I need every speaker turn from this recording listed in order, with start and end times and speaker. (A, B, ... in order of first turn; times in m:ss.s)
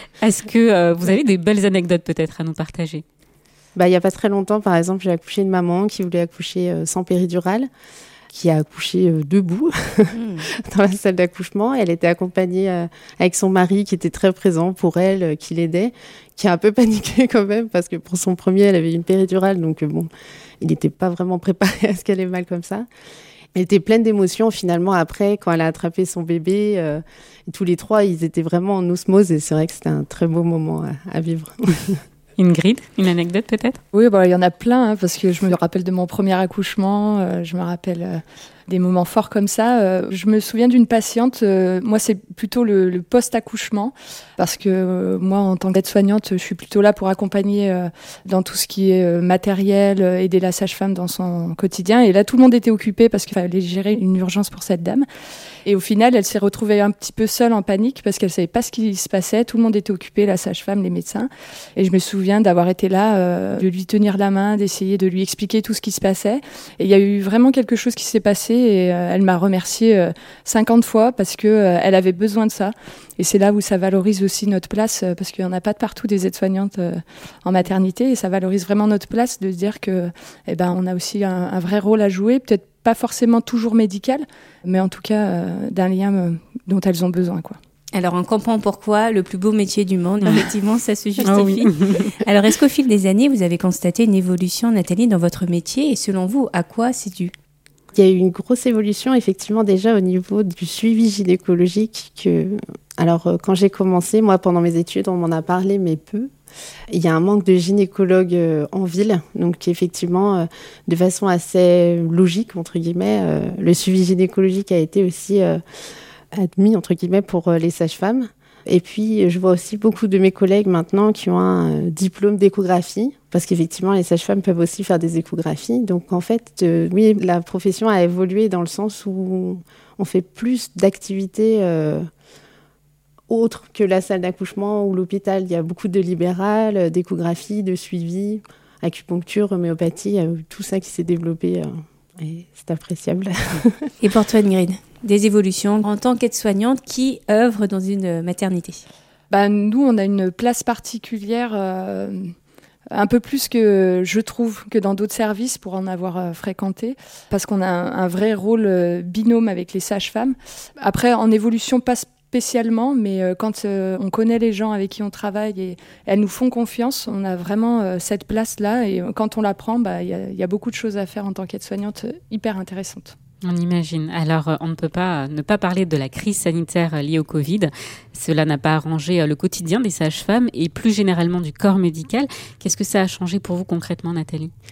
0:00.2-0:03.0 A
0:03.7-0:07.7 B
0:08.3-0:20.1 B
0:10.1-0:10.5 C
0:20.6-0:22.9 B
0:23.5-0:32.0 B
0:32.4-0:33.8 A
0:33.9-0:55.1 D
0:55.6-1:27.6 D
1:27.9-1:37.3 C
1:31.2-1:32.0 A
1:37.9-1:46.3 B
1:46.9-1:55.6 B
1:56.3-2:12.1 B
2:13.3-2:23.8 B
2:24.0-2:28.8 C
2:29.3-2:32.3 D
2:32.9-2:53.1 D
2:53.4-3:04.5 A